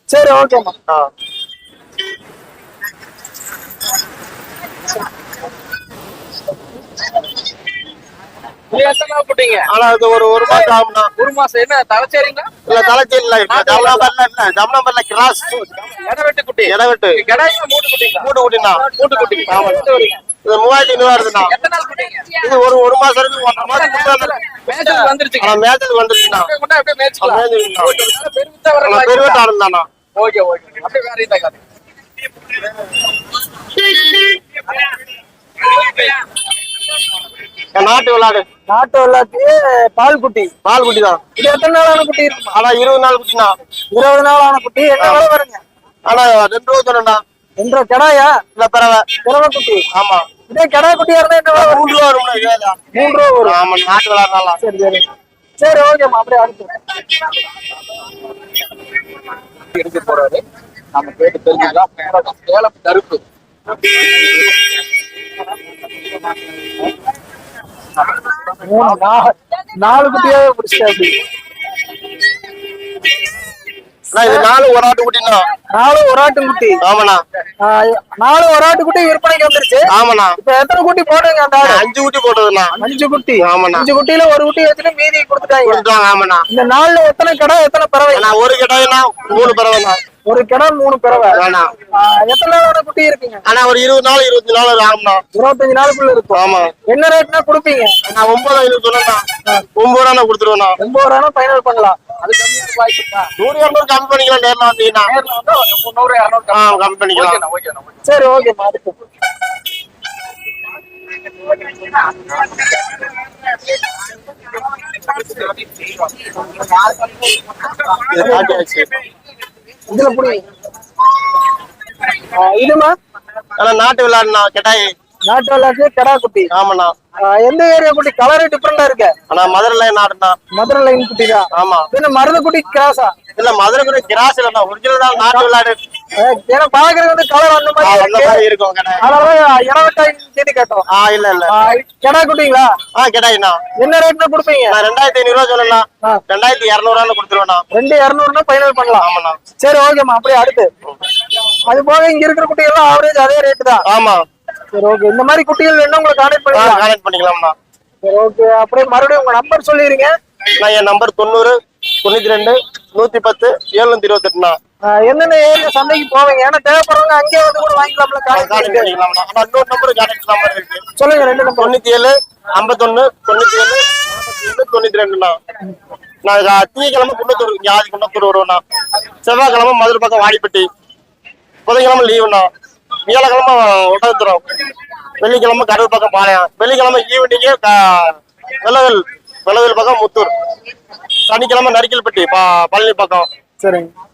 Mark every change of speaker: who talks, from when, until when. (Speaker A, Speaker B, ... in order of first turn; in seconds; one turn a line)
Speaker A: 0.1-0.8
Speaker B: 8.7-9.7
Speaker C: 9.7-11.1
Speaker B: 11.2-12.5
Speaker C: 12.7-15.6
Speaker B: 13.5-14.1
Speaker B: 15.5-18.3
Speaker C: 16.6-17.2
Speaker C: 18.2-18.8
Speaker B: 18.9-19.7
Speaker A: 19.0-20.2
Speaker C: 19.5-19.9
Speaker C: 20.4-21.5
Speaker B: 21.3-22.4
Speaker C: 22.4-24.4
Speaker B: 23.6-25.6
Speaker C: 25.4-26.5
Speaker B: 26.3-29.4
Speaker C: 27.2-27.9
Speaker C: 28.8-29.9
Speaker B: 30.1-31.6
Speaker B: 35.7-36.2
Speaker C: 37.7-38.4
Speaker A: 38.7-40.5
Speaker C: 40.6-41.2
Speaker A: 41.4-42.5
Speaker C: 42.5-43.5
Speaker A: 43.9-45.6
Speaker C: 46.1-47.2
Speaker A: 47.6-48.4
Speaker C: 48.5-49.0
Speaker A: 49.2-49.8
Speaker C: 49.9-50.2
Speaker A: 50.5-51.9
Speaker C: 51.5-52.8
Speaker A: 52.9-53.6
Speaker C: 53.4-54.6
Speaker A: 54.6-55.0
Speaker A: 55.6-56.8
Speaker B: 59.7-60.4
Speaker B: 60.9-63.2
Speaker A: 68.5-71.2
Speaker C: 74.1-75.4
Speaker A: 74.2-74.5
Speaker A: 75.8-76.8
Speaker C: 76.8-77.2
Speaker A: 77.6-79.9
Speaker C: 79.9-80.3
Speaker A: 80.4-81.8
Speaker C: 81.6-82.8
Speaker A: 82.8-85.8
Speaker C: 83.4-83.9
Speaker C: 85.6-86.4
Speaker A: 86.5-88.3
Speaker C: 88.1-90.0
Speaker A: 90.3-91.4
Speaker C: 91.3-91.7
Speaker A: 92.0-93.4
Speaker C: 93.5-95.2
Speaker A: 95.3-97.9
Speaker C: 96.3-96.7
Speaker C: 98.0-99.2
Speaker C: 99.8-100.8
Speaker A: 100.8-102.0
Speaker B: 102.2-103.3
Speaker C: 103.4-105.1
Speaker B: 105.0-108.0
Speaker C: 106.5-107.4
Speaker A: 108.0-109.0
Speaker C: 118.1-118.9
Speaker A: 118.1-118.7
Speaker A: 119.9-120.4
Speaker A: 122.2-122.9
Speaker C: 123.6-124.8
Speaker A: 125.3-126.5
Speaker C: 126.5-126.9
Speaker A: 127.3-129.1
Speaker C: 129.3-130.4
Speaker A: 130.6-133.1
Speaker C: 131.6-131.9
Speaker C: 133.3-135.8
Speaker A: 136.2-138.4
Speaker C: 137.8-139.0
Speaker A: 139.0-140.8
Speaker C: 140.9-141.5
Speaker A: 141.5-142.7
Speaker C: 142.9-143.6
Speaker A: 143.8-144.8
Speaker C: 144.7-147.6
Speaker A: 147.7-149.1
Speaker C: 149.0-149.4
Speaker A: 149.6-150.7
Speaker A: 151.7-153.8
Speaker C: 153.8-154.2
Speaker A: 154.8-156.9
Speaker C: 156.5-157.5
Speaker A: 158.1-160.1
Speaker C: 160.6-164.5
Speaker A: 164.9-168.9
Speaker C: 168.3-170.8
Speaker A: 170.9-171.7
Speaker C: 171.6-175.3
Speaker C: 176.2-178.6
Speaker C: 179.2-180.7
Speaker C: 181.7-182.5
Speaker C: 183.1-184.4
Speaker C: 185.2-190.3
Speaker C: 191.3-193.3
Speaker A: 193.6-193.9